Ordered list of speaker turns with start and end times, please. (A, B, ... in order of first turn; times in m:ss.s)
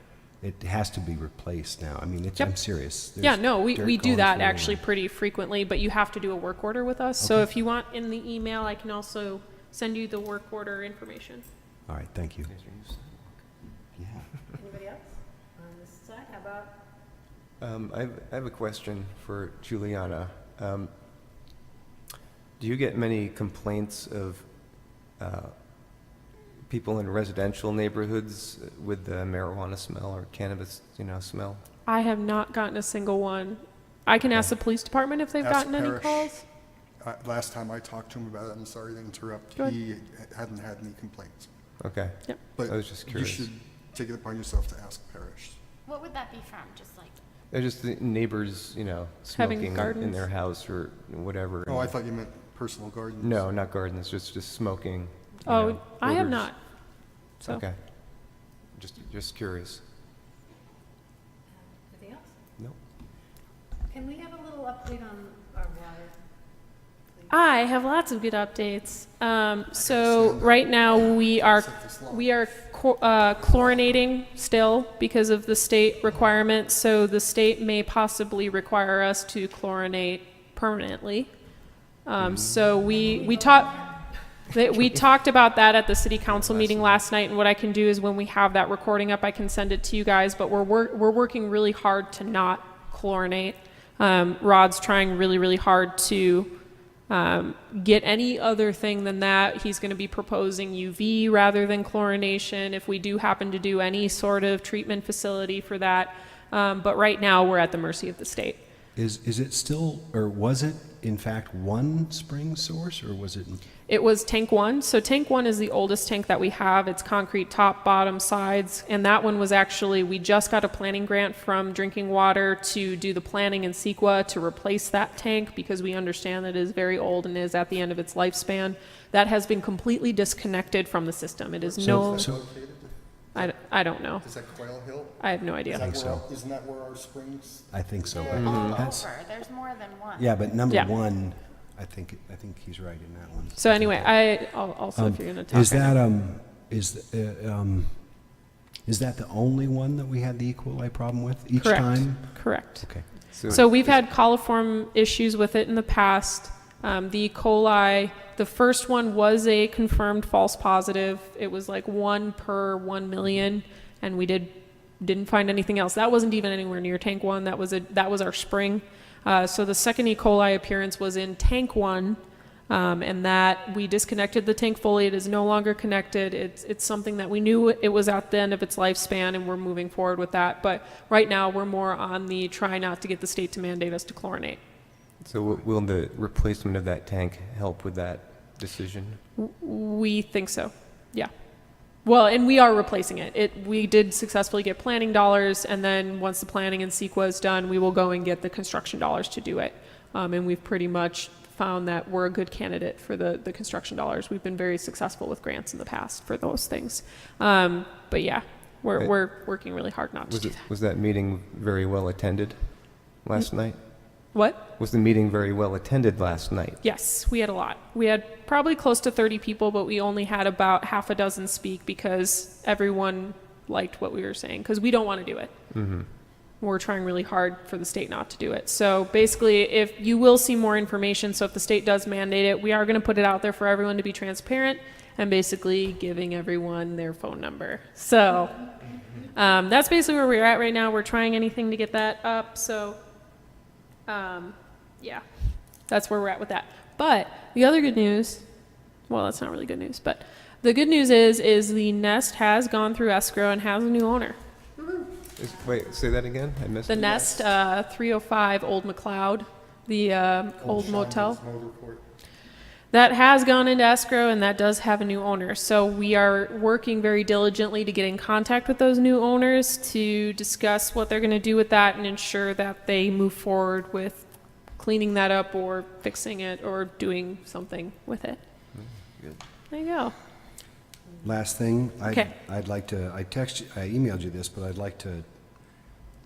0:00.4-0:04.8 A
0:03.2-0:11.5 B
0:07.2-0:07.5 A
0:11.9-0:12.5 A
0:12.5-0:13.4 C
0:14.0-0:14.3 A
0:14.6-0:16.7 D
0:17.6-0:20.9 C
0:22.6-0:31.6 C
0:31.9-0:36.4 B
0:35.4-0:36.4 E
0:37.0-0:41.5 E
0:41.8-0:43.5 C
0:42.6-0:45.6 E
0:45.9-0:47.2 F
0:47.5-0:52.0 C
0:49.3-0:50.2 B
0:51.7-0:53.5 E
0:53.2-0:56.5 C
0:55.4-0:56.6 B
0:57.4-0:59.8 C
1:01.9-1:02.2 D
1:03.9-1:06.2 D
1:07.3-1:21.3 B
1:09.8-1:12.3 E
1:13.4-1:13.9 E
1:22.0-1:23.8 B
1:24.5-1:36.5 B
1:26.3-1:27.0 C
1:37.1-1:48.6 B
1:49.0-1:53.6 A
1:53.9-2:12.3 B
2:11.6-2:13.6 E
2:11.8-2:12.4 A
2:13.3-2:14.3 B
2:14.2-2:18.7 E
2:15.2-2:15.9 B
2:15.7-2:16.2 A
2:17.7-2:19.1 A
2:18.1-2:20.3 F
2:18.3-2:18.8 C
2:20.2-2:33.0 A
2:23.6-2:26.0 B
2:31.6-3:04.6 B
2:32.8-2:33.8 C
3:05.2-3:09.2 C
3:09.4-3:11.3 B
3:12.0-3:30.6 B
3:29.0-3:29.7 C
3:30.3-3:33.8 C
3:34.3-3:34.6 B
3:34.8-3:36.8 C
3:36.8-3:45.6 B
3:45.7-3:46.1 C
3:46.6-3:58.7 B
3:59.3-4:03.0 B
4:04.1-4:08.4 B
4:09.1-4:14.4 B
4:15.4-4:17.4 C
4:16.9-4:21.4 B
4:20.6-4:22.1 E
4:22.9-4:38.4 B
4:38.7-4:39.4 C
4:39.7-4:40.2 B
4:41.2-4:45.8 A
4:42.1-4:42.3 B